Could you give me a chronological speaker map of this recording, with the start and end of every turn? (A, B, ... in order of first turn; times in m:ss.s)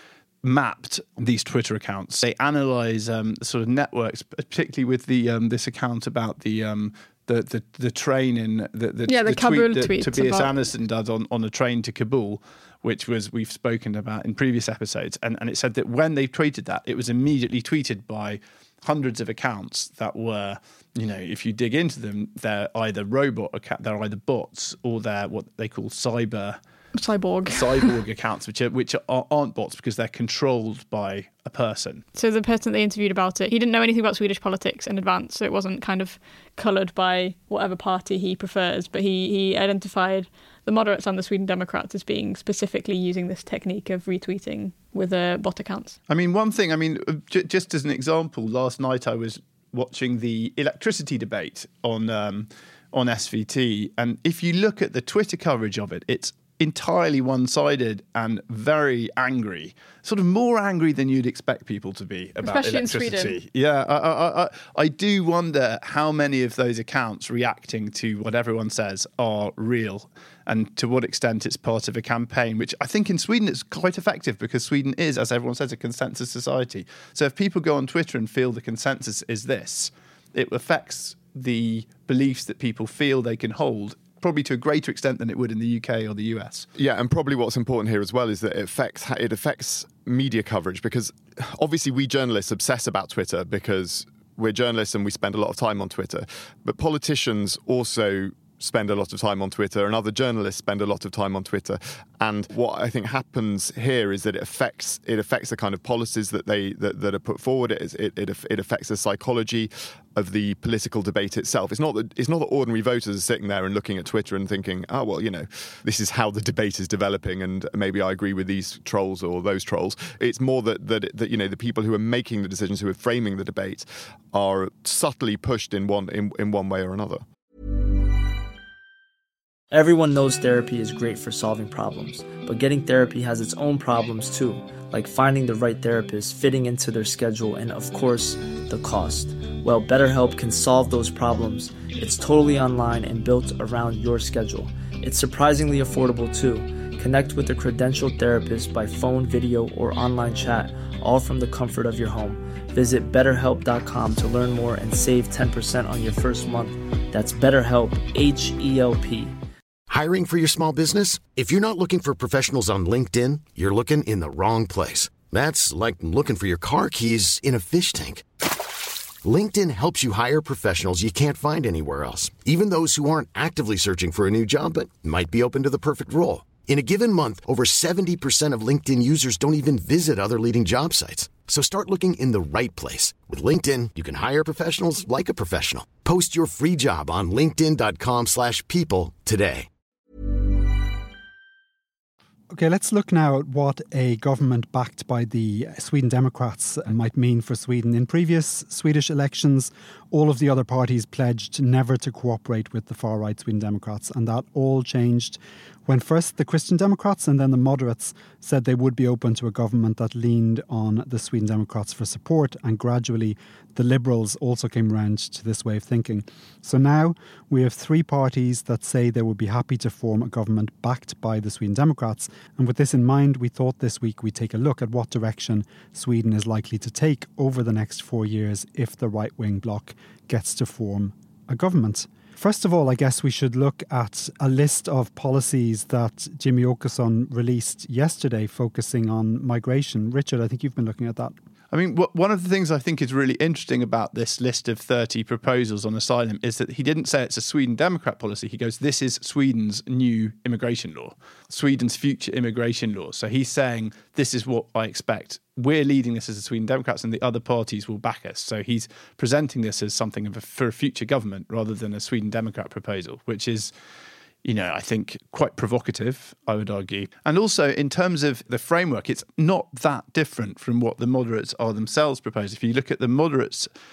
0:00.4-0:26.6 A
0:09.1-0:10.6 B
0:27.0-0:27.9 B
0:27.5-0:32.0 A
0:32.2-0:46.0 B
0:46.1-1:26.7 A
1:02.4-1:03.4 B
1:26.8-2:07.2 C
2:09.7-2:39.4 D
2:39.9-2:48.2 E
2:49.2-3:09.7 E
3:12.5-4:01.4 F
4:01.7-4:23.7 A
4:24.4-4:33.7 A